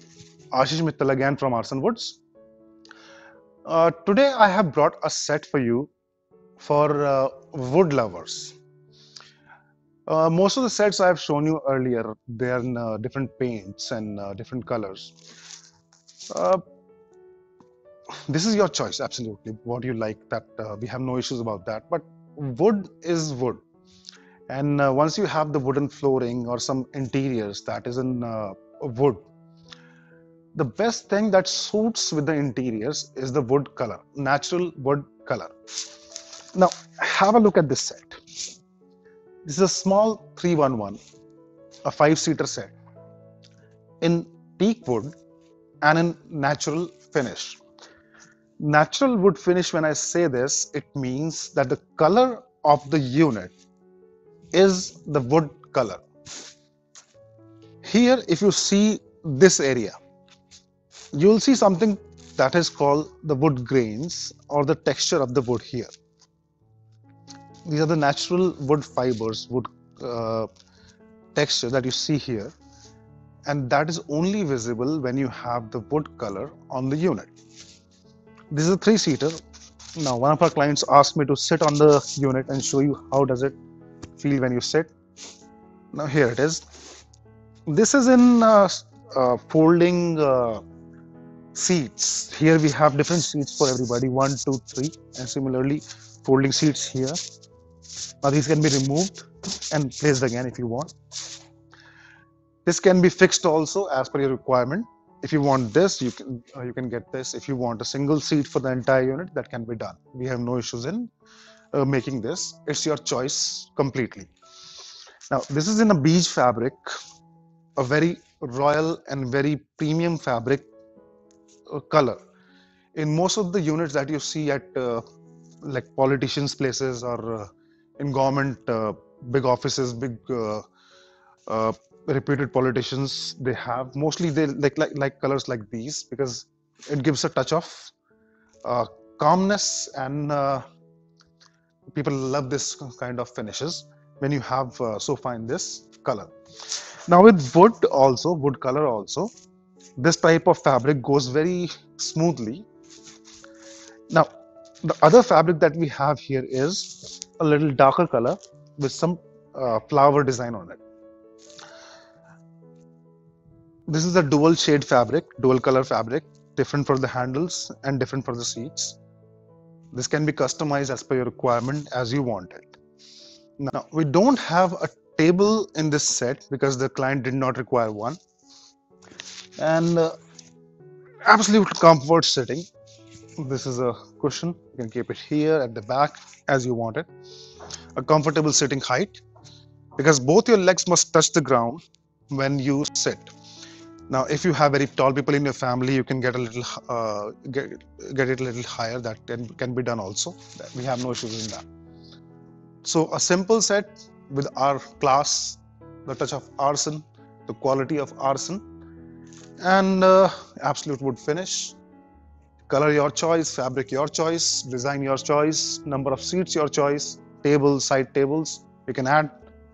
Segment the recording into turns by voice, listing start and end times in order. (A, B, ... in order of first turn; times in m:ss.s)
0:00.5-0:02.2 A
0:03.6-0:05.9 A
0:06.6-0:08.5 A
0:10.1-0:15.1 A
0:16.3-0:16.6 A
0:18.3-0:23.6 A
0:24.5-0:29.2 A
0:30.5-0:35.5 A
0:36.5-0:38.2 A
0:39.4-0:41.0 A
0:41.8-0:42.7 A
0:44.0-0:45.1 A
0:45.8-0:47.6 A
0:48.6-0:53.5 A
0:54.5-0:56.0 A
0:57.8-1:00.0 A
1:01.1-1:05.9 A
1:07.6-1:10.5 A
1:11.3-1:12.5 A
1:13.4-1:17.3 A
1:18.5-1:19.4 A
1:20.0-1:23.6 A
1:24.2-1:24.9 A
1:25.9-1:26.6 A
1:27.7-1:30.6 A
1:31.5-1:37.2 A
1:38.2-1:40.9 A
1:42.6-1:51.1 A
1:51.7-1:54.3 A
1:55.3-1:56.9 A
1:57.8-2:00.7 A
2:01.7-2:02.2 A
2:02.9-2:05.0 A
2:05.6-2:10.6 A
2:11.5-2:17.9 A
2:18.6-2:20.6 A
2:21.9-2:26.3 A
2:27.1-2:29.3 A
2:30.0-2:32.6 A
2:34.8-2:40.8 A
2:43.9-2:49.0 A
2:49.9-2:52.8 A
2:53.6-2:58.2 A
2:59.6-3:00.1 A
3:01.2-3:02.6 A
3:03.4-3:07.1 A
3:08.0-3:09.2 A
3:10.0-3:13.3 A
3:14.1-3:21.6 A
3:22.8-3:28.6 A
3:29.6-3:31.8 A
3:32.7-3:39.4 A